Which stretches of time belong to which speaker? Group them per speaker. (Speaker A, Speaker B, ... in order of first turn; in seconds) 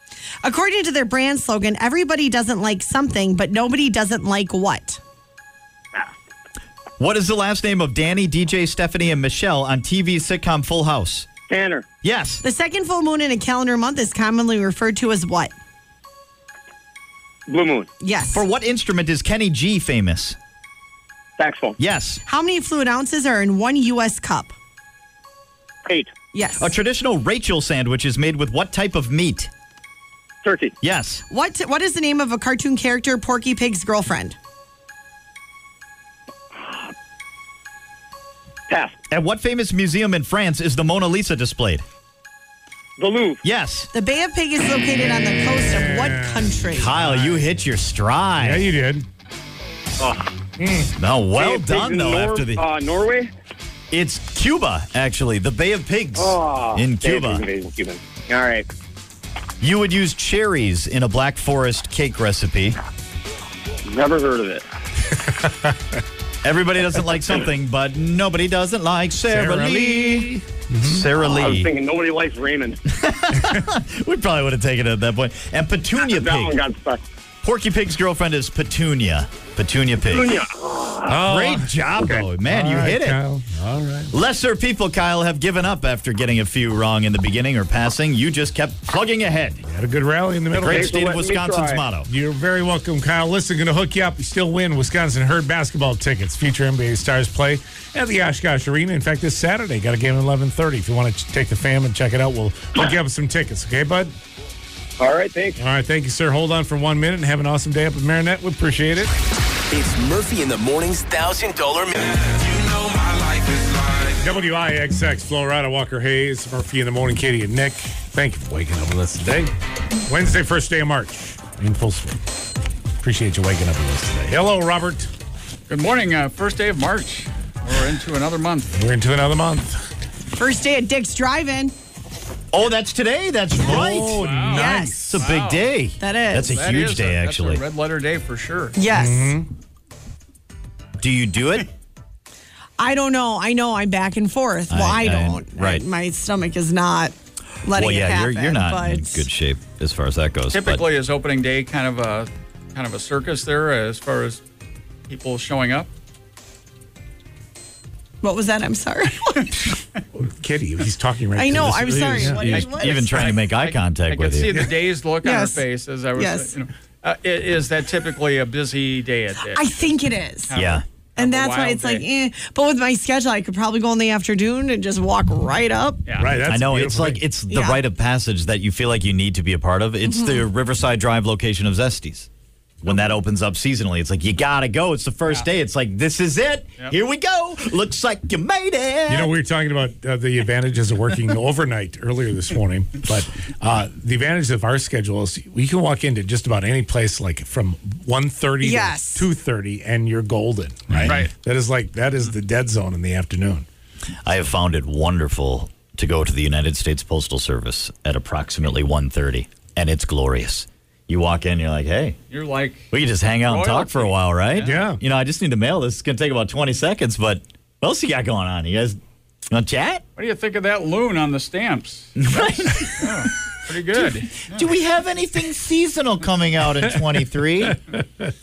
Speaker A: 0.4-5.0, 12.4-15.5, 18.0-18.4, 22.2-24.6, 26.3-26.7, 31.3-34.4, 43.9-46.9, 130.3-131.7, 134.5-135.0, 136.0-136.5, 138.8-139.3, 142.8-149.2, 158.2-159.5, 161.3-163.3, 165.2-165.6, 166.2-166.5, 169.5-170.5, 171.2-176.0, 177.5-177.8, 180.0-180.4, 198.6-199.3
Speaker B: 7.0-11.3, 12.0-12.4, 18.3-20.4, 21.8-22.2, 26.6-29.5, 30.8-31.2, 39.1-41.8, 43.4-43.9, 46.7-48.7, 51.0-52.6, 53.9-57.5, 59.6-62.8, 66.4-71.7, 72.9-76.6, 77.4-80.4, 81.2-83.2, 84.1-89.6, 90.5-92.1, 132.5-134.4, 135.0-137.6, 141.0-141.7, 144.7-145.8, 147.7-150.8, 161.5-164.6, 170.5-170.8, 176.4-182.3, 182.8-189.3, 200.9-201.2, 204.2-212.2, 212.9-220.0, 222.2-223.3, 224.0-227.8
Speaker C: 11.5-11.8, 17.5-17.9, 21.4-21.8, 25.9-26.1, 30.4-30.7, 38.7-39.0, 43.0-43.4, 50.0-50.2, 51.4-53.3, 56.1-58.6, 63.9-64.6, 71.1-72.8, 76.0-77.0, 80.1-81.1, 90.6-91.8, 105.0-105.6
Speaker D: 45.5-47.6, 48.4-49.1, 50.6-50.9, 65.3-65.7, 69.3-71.0, 81.1-84.1, 89.7-91.0, 92.0-104.1, 105.6-109.1, 114.2-119.5, 120.1-122.2, 123.0-125.1, 128.7-129.8, 133.6-135.2, 138.9-139.5, 160.1-162.6, 176.2-177.2, 189.1-203.7, 214.6-215.0
Speaker E: 109.7-114.2
Speaker F: 125.7-128.7, 133.9-135.7, 136.4-138.8, 150.5-154.4, 155.1-155.9, 162.4-169.9, 170.5-172.1, 176.1-176.4, 212.3-212.9, 213.4-214.9, 220.2-224.6